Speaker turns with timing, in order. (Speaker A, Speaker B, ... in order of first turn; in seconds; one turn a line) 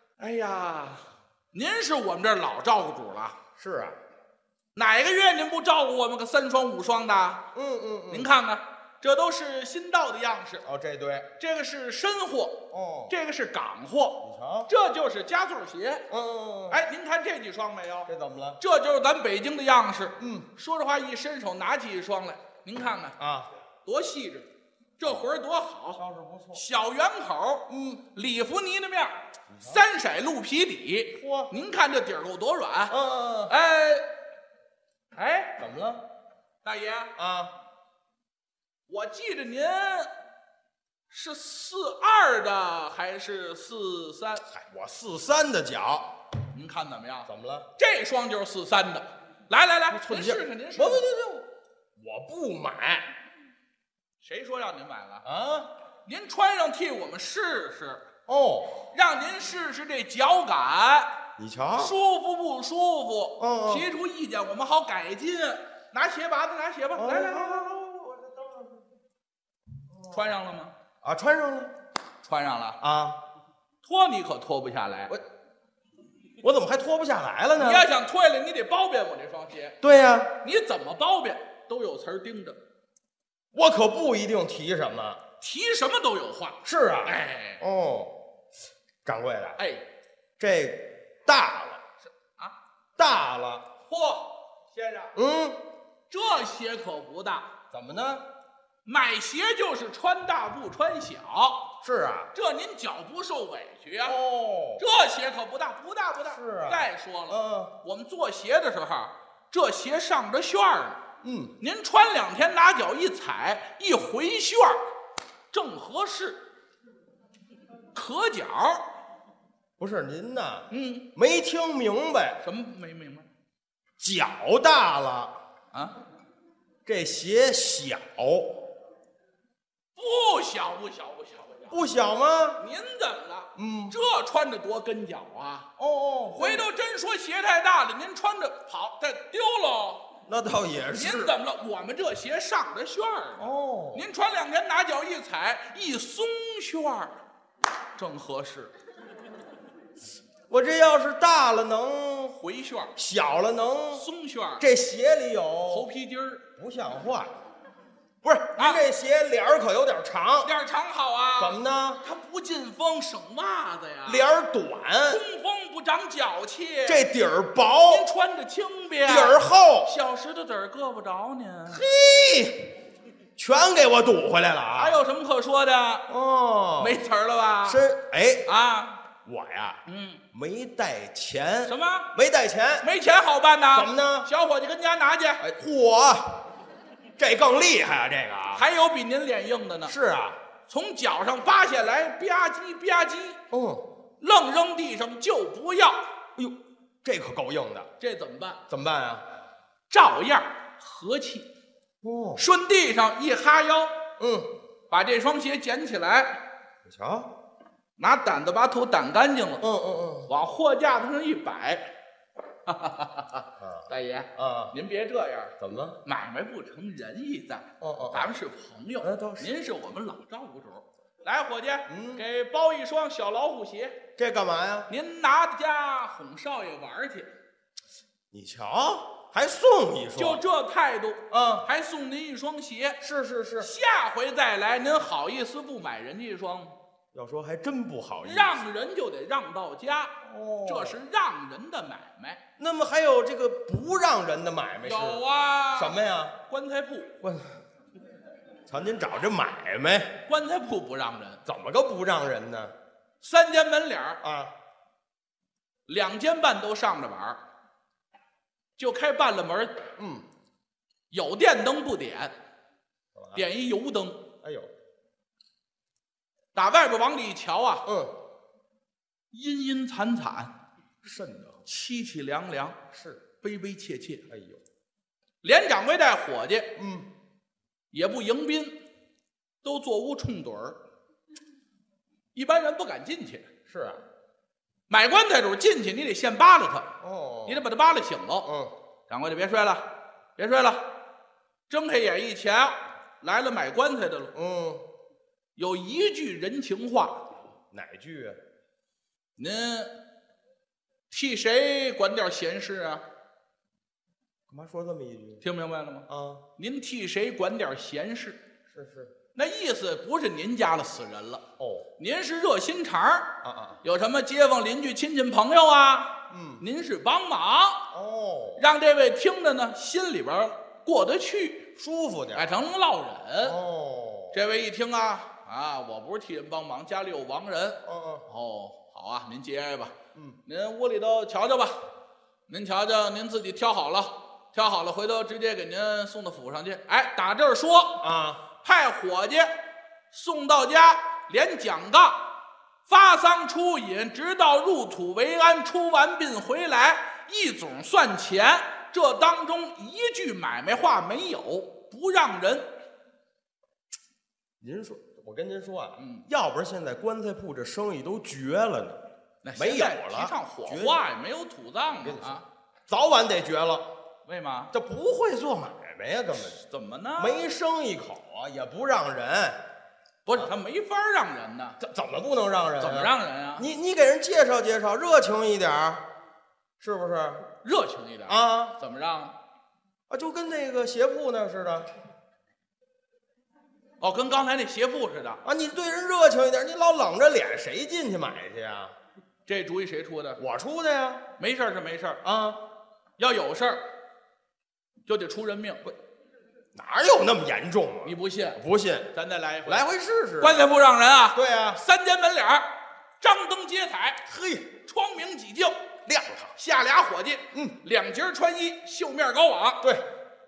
Speaker A: 0.2-3.4
Speaker B: 3.6-4.0
Speaker A: 4.7-7.4
Speaker B: 7.5-8.3
Speaker A: 8.1-10.6
Speaker B: 10.6-11.3
Speaker A: 11.4-12.5
Speaker B: 12.7-13.1
Speaker A: 13.1-16.0
Speaker B: 14.2-14.7
Speaker B: 16.1-16.8
Speaker A: 16.7-23.1
Speaker B: 18.1-18.6
Speaker B: 20.2-20.5
Speaker B: 23.2-23.5
Speaker A: 23.9-24.5
Speaker A: 25.0-26.0
Speaker B: 25.9-26.6
Speaker A: 26.5-32.9
Speaker B: 27.7-28.0
Speaker B: 29.5-29.8
Speaker B: 31.1-31.5
Speaker B: 32.9-33.5
Speaker A: 33.5-34.0
Speaker A: 35.1-35.5
Speaker B: 35.6-36.0
Speaker A: 36.6-37.1
Speaker B: 37.2-37.5
Speaker A: 38.9-40.1
Speaker A: 41.1-44.4
Speaker B: 44.5-46.1
Speaker A: 46.5-51.0
Speaker B: 47.3-47.7
Speaker B: 49.9-51.5
Speaker B: 52.0-53.1
Speaker A: 54.2-55.2
Speaker B: 55.2-55.7
Speaker A: 56.0-58.0
Speaker B: 58.3-58.8
Speaker A: 58.9-61.1
Speaker B: 61.4-61.9
Speaker A: 61.8-67.8
Speaker B: 63.4-63.9
Speaker B: 66.9-68.8
Speaker B: 69.9-70.3
Speaker A: 70.1-70.7
Speaker B: 71.0-71.7
Speaker A: 72.2-72.8
Speaker B: 72.8-73.2
Speaker A: 73.8-75.1
Speaker B: 76.4-77.8
Speaker A: 77.6-79.8
Speaker B: 79.8-80.3
Speaker A: 80.4-82.6
Speaker B: 83.5-85.2
Speaker A: 85.4-87.6
Speaker B: 86.6-88.1
Speaker B: 89.0-89.6
Speaker A: 89.6-89.8
Speaker B: 90.4-91.8
Speaker A: 92.0-92.5
Speaker B: 93.0-93.6
Speaker A: 93.8-95.1
Speaker B: 95.1-95.6
Speaker A: 96.1-97.5
Speaker B: 97.7-98.2
Speaker A: 98.8-101.6
Speaker B: 101.8-102.3
Speaker A: 102.3-104.2
Speaker B: 104.0-104.8
Speaker A: 104.8-111.0
Speaker B: 106.3-107.7
Speaker B: 111.2-111.5
Speaker A: 111.6-114.8
Speaker A: 115.5-116.4
Speaker A: 117.9-118.8
Speaker B: 119.8-122.4
Speaker A: 120.7-121.0
Speaker A: 122.4-123.2
Speaker B: 124.0-125.3
Speaker B: 126.8-128.6
Speaker A: 129.9-131.8
Speaker B: 131.7-132.6
Speaker A: 132.6-135.7
Speaker B: 133.6-133.9
Speaker B: 135.8-136.7
Speaker A: 136.4-140.0
Speaker B: 140.3-141.3
Speaker A: 140.9-147.1
Speaker B: 143.4-144.1
Speaker A: 148.0-148.7
Speaker B: 150.5-152.3
Speaker A: 152.3-152.9
Speaker B: 152.9-154.1
Speaker A: 153.9-154.6
Speaker B: 154.6-155.9
Speaker A: 155.7-156.4
Speaker B: 156.6-157.3
Speaker B: 158.2-160.5
Speaker A: 158.5-158.8
Speaker A: 160.4-164.2
Speaker B: 161.4-162.0
Speaker B: 164.0-165.2
Speaker A: 165.1-167.0
Speaker B: 166.8-168.1
Speaker A: 167.9-171.8
Speaker B: 169.0-169.9
Speaker B: 171.7-172.7
Speaker B: 173.4-175.0
Speaker A: 174.7-176.0
Speaker B: 176.1-177.0
Speaker A: 176.8-177.8
Speaker B: 177.6-178.4
Speaker A: 178.4-179.0
Speaker B: 179.2-179.8
Speaker A: 179.8-180.2
Speaker B: 180.3-182.8
Speaker A: 181.7-182.1
Speaker A: 182.8-185.4
Speaker B: 183.7-184.3
Speaker B: 185.4-186.3
Speaker B: 187.2-188.6
Speaker A: 188.5-189.9
Speaker B: 189.8-190.4
Speaker A: 190.7-193.4
Speaker B: 193.5-193.8
Speaker A: 194.2-196.0
Speaker B: 196.3-197.9
Speaker A: 198.0-198.6
Speaker B: 198.7-199.2
Speaker A: 199.9-201.5
Speaker B: 202.0-202.4
Speaker A: 202.4-203.9
Speaker B: 204.2-204.5
Speaker A: 204.9-206.4
Speaker B: 206.8-207.3
Speaker A: 208.0-209.6
Speaker B: 209.6-210.3
Speaker A: 210.3-211.8
Speaker A: 212.7-215.5
Speaker B: 213.6-214.7
Speaker B: 215.6-216.0
Speaker A: 216.0-224.0
Speaker B: 217.8-218.3
Speaker B: 219.0-219.5
Speaker B: 221.9-222.2
Speaker B: 224.2-224.9
Speaker A: 224.9-227.3
Speaker B: 228.3-230.4
Speaker A: 230.2-233.0
Speaker B: 231.3-231.6
Speaker B: 233.0-233.7
Speaker A: 233.6-236.7
Speaker B: 237.1-238.6
Speaker A: 238.2-240.1
Speaker B: 240.2-241.0
Speaker A: 240.7-242.4
Speaker B: 242.6-245.2
Speaker A: 244.8-245.9
Speaker B: 245.7-246.3
Speaker A: 246.5-247.1
Speaker B: 247.2-247.5
Speaker B: 248.7-250.1
Speaker A: 250.3-251.4
Speaker B: 251.4-252.7
Speaker A: 253.2-254.2
Speaker B: 254.2-254.5
Speaker A: 255.9-257.4
Speaker A: 258.8-259.7
Speaker B: 260.0-260.2
Speaker A: 261.1-262.3
Speaker B: 263.1-263.4
Speaker A: 263.3-264.2
Speaker B: 264.4-264.7
Speaker A: 266.5-267.8
Speaker B: 267.9-268.1
Speaker A: 269.3-270.5
Speaker B: 271.0-271.6
Speaker A: 271.6-272.8
Speaker B: 272.9-273.2
Speaker A: 273.4-274.2
Speaker B: 274.3-274.6
Speaker A: 275.4-276.7
Speaker B: 276.8-277.1
Speaker A: 277.9-278.7
Speaker A: 279.6-280.8
Speaker A: 282.3-283.5
Speaker B: 283.7-284.0
Speaker A: 284.9-286.9
Speaker B: 287.0-287.6
Speaker A: 287.5-288.5
Speaker B: 288.4-288.7
Speaker A: 289.1-289.8
Speaker A: 290.4-290.8
Speaker A: 291.7-294.3
Speaker B: 294.3-294.8
Speaker A: 295.6-297.2
Speaker B: 297.7-298.4
Speaker A: 299.4-299.9
Speaker A: 301.1-303.0
Speaker B: 304.5-305.4
Speaker A: 305.4-306.1
Speaker B: 306.1-306.4
Speaker A: 306.6-308.4
Speaker B: 308.7-309.1
Speaker A: 309.3-311.4
Speaker B: 311.6-311.9
Speaker A: 312.0-313.3
Speaker B: 313.4-313.8
Speaker A: 313.8-317.8
Speaker B: 316.3-316.6
Speaker B: 317.9-318.6
Speaker A: 318.6-321.6
Speaker B: 321.8-322.5
Speaker A: 322.3-323.6
Speaker B: 323.4-324.4
Speaker A: 324.3-329.9
Speaker B: 327.8-328.2
Speaker A: 330.5-331.8
Speaker A: 332.5-338.0
Speaker B: 338.0-338.4
Speaker A: 338.6-339.5
Speaker A: 340.1-342.2
Speaker A: 342.9-352.7
Speaker B: 354.6-359.0
Speaker A: 356.0-356.2
Speaker A: 359.4-362.4
Speaker B: 359.6-361.0
Speaker B: 362.0-363.8
Speaker A: 364.2-364.7
Speaker B: 364.7-366.6
Speaker A: 366.6-367.4
Speaker B: 367.2-369.6
Speaker A: 370.2-371.8
Speaker B: 371.8-376.0
Speaker A: 372.8-373.7
Speaker B: 376.8-377.4
Speaker A: 377.6-379.3
Speaker B: 378.3-378.8
Speaker B: 380.1-381.9
Speaker A: 384.0-385.4
Speaker B: 385.4-388.9
Speaker A: 389.4-390.4
Speaker B: 390.4-391.2
Speaker A: 391.4-392.2
Speaker B: 392.2-392.6
Speaker A: 393.2-393.8
Speaker A: 395.1-395.8
Speaker B: 396.7-399.1
Speaker A: 398.0-398.6
Speaker A: 399.1-399.8
Speaker B: 399.6-400.6
Speaker A: 400.4-402.7
Speaker B: 401.3-401.8
Speaker A: 403.2-404.2
Speaker B: 404.3-404.7
Speaker A: 404.9-405.8
Speaker B: 406.1-406.5
Speaker A: 406.6-409.8